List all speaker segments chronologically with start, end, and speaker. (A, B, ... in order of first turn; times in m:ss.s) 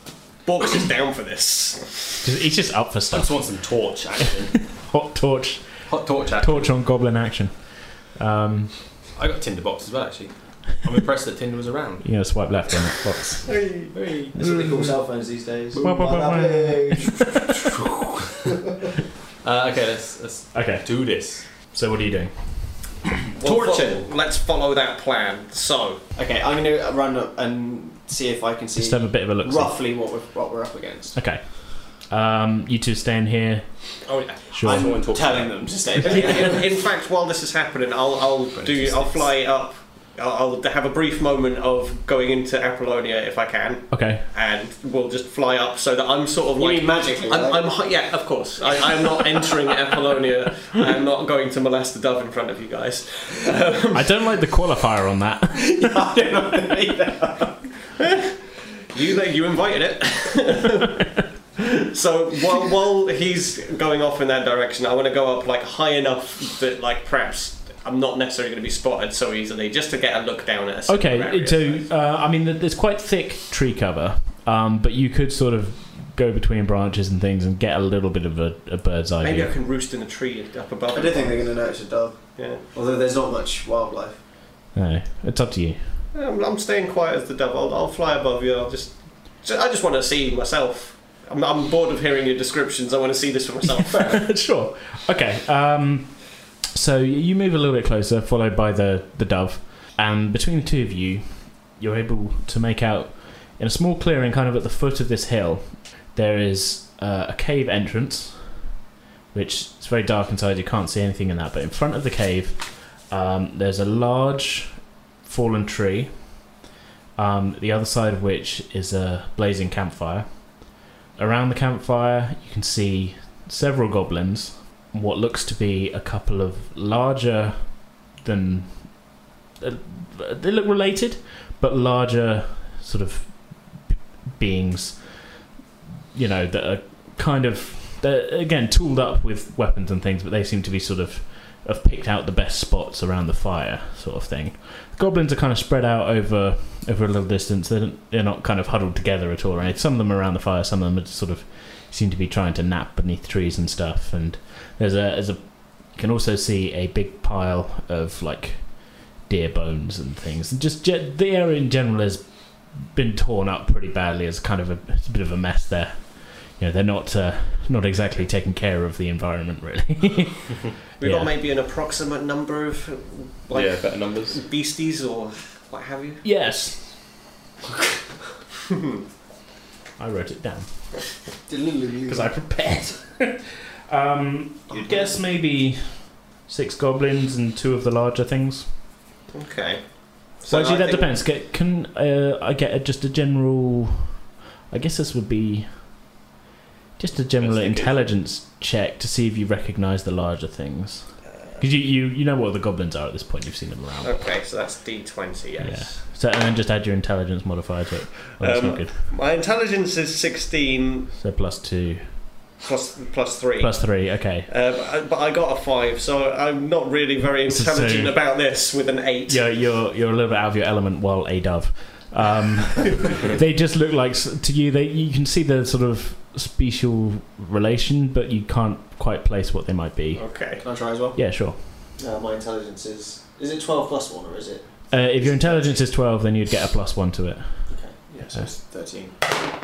0:00.4-0:02.2 A
0:02.2-0:03.5 B
0:03.1-0:04.7 C
0:04.5-0:08.9 B
0:05.9-0:06.8 C
0:09.2-0:12.3 C
0:12.0-0:13.5 B
0:13.5-0:13.9 A
0:13.9-0:14.4 C
0:14.3-0:15.0 B
0:14.4-0:17.4 D
0:15.7-0:16.1 C
0:15.8-0:17.8 B
0:19.4-0:21.5 C
0:20.5-0:23.0 B
0:23.4-0:26.0 A
0:23.4-0:24.1 D
0:26.2-0:31.2 D
0:28.8-0:29.8 B
0:31.2-0:33.9 B
0:34.1-0:34.5 A
0:34.5-0:35.0 B
0:34.6-0:35.6 C
0:34.6-0:36.7 D
0:36.0-0:36.6 B
0:36.0-0:54.2 A
0:38.6-0:39.2 C
0:43.9-0:44.2 B
0:46.6-0:47.7 D
0:53.9-0:56.0 B
0:55.6-0:57.6 D
0:58.0-0:58.3 A
0:58.9-1:11.9 A
1:10.9-1:19.5 B
1:19.2-1:21.7 A
1:20.9-1:24.2 D
1:22.4-1:22.6 A
1:24.7-1:26.0 B
1:26.1-1:34.3 A
1:33.9-1:48.6 B
1:49.3-1:56.5 B
1:57.2-2:15.5 B
2:16.1-2:51.3 B
2:51.0-2:56.2 A
2:53.5-2:54.4 C
2:56.2-2:57.1 B
3:00.0-3:01.1 B
3:01.5-3:02.3 D
3:02.1-3:08.7 B
3:09.3-3:11.1 A
3:10.5-3:16.1 B
3:17.0-3:24.2 B
3:17.4-3:18.0 C
3:24.0-3:26.0 A
3:25.6-3:29.0 B
3:28.4-3:31.1 A
3:31.2-3:32.2 B
3:32.6-3:39.6 A
3:33.6-3:34.5 B
3:37.5-3:38.2 B
3:39.3-3:50.4 B
3:50.2-3:50.6 A
3:50.6-3:55.8 D
3:51.2-3:51.9 B
3:54.9-3:57.8 B
3:57.7-3:59.2 D